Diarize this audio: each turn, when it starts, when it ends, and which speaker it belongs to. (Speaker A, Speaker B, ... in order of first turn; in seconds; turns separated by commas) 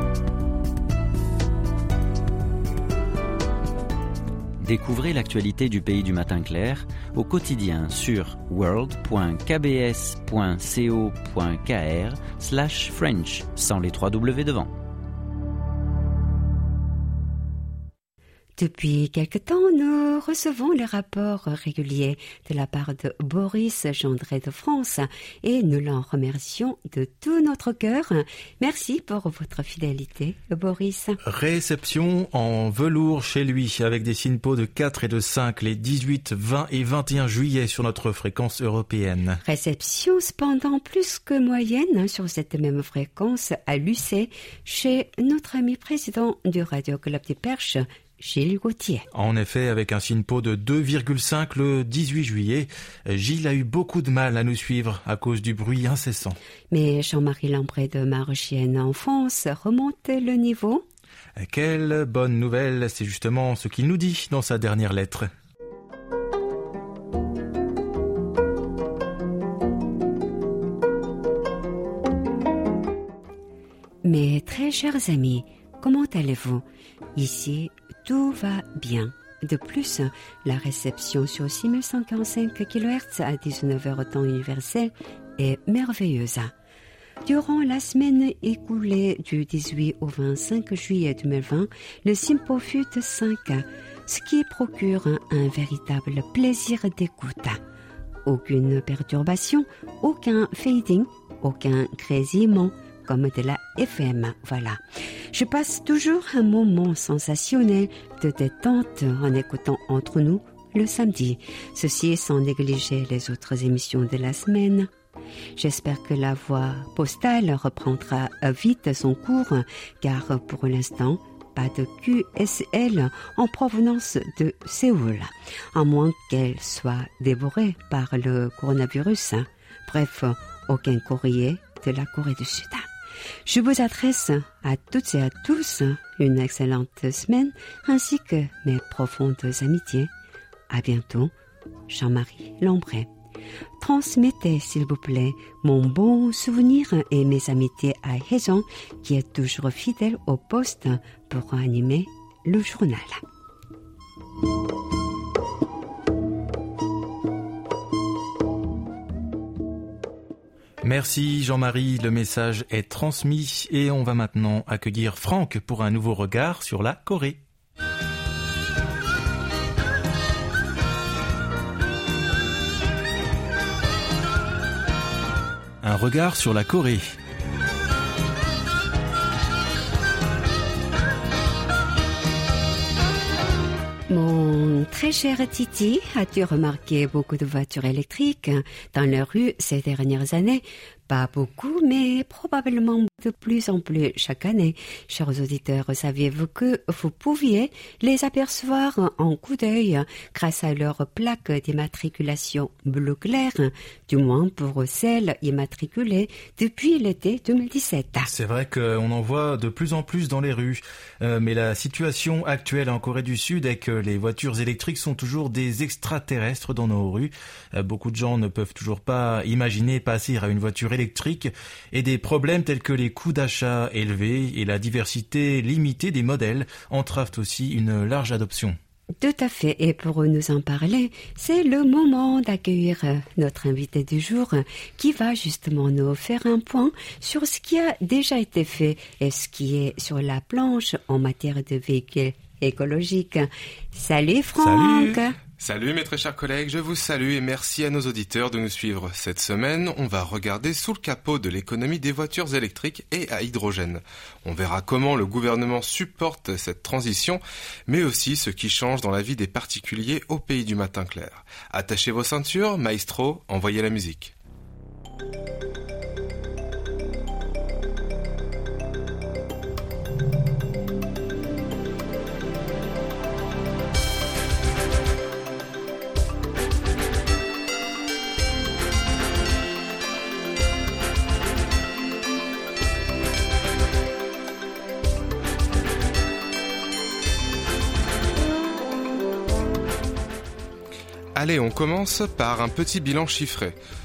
Speaker A: 4.6-14.7, Speaker B: 18.6-31.2, Speaker C: 31.2-39.4, Speaker B: 39.4-49.0, Speaker C: 49.1-56.4, Speaker B: 56.7-60.8, Speaker C: 61.4-65.3, Speaker B: 74.0-76.6, Speaker B: 77.1-86.5, Speaker B: 87.2-97.6, Speaker B: 98.2-104.8, Speaker B: 105.3-114.9, Speaker B: 115.6-132.9, Speaker B: 133.4-140.1, Speaker B: 140.7-141.3, Speaker B: 141.9-143.1, Speaker B: 143.8-153.2, Speaker C: 160.8-167.4, Speaker C: 175.8-177.1, Speaker B: 184.1-208.3, Speaker C: 208.2-228.8, Speaker B: 229.2-245.3, Speaker C: 244.6-245.2, Speaker D: 245.6-264.3, Speaker D: 291.3-293.8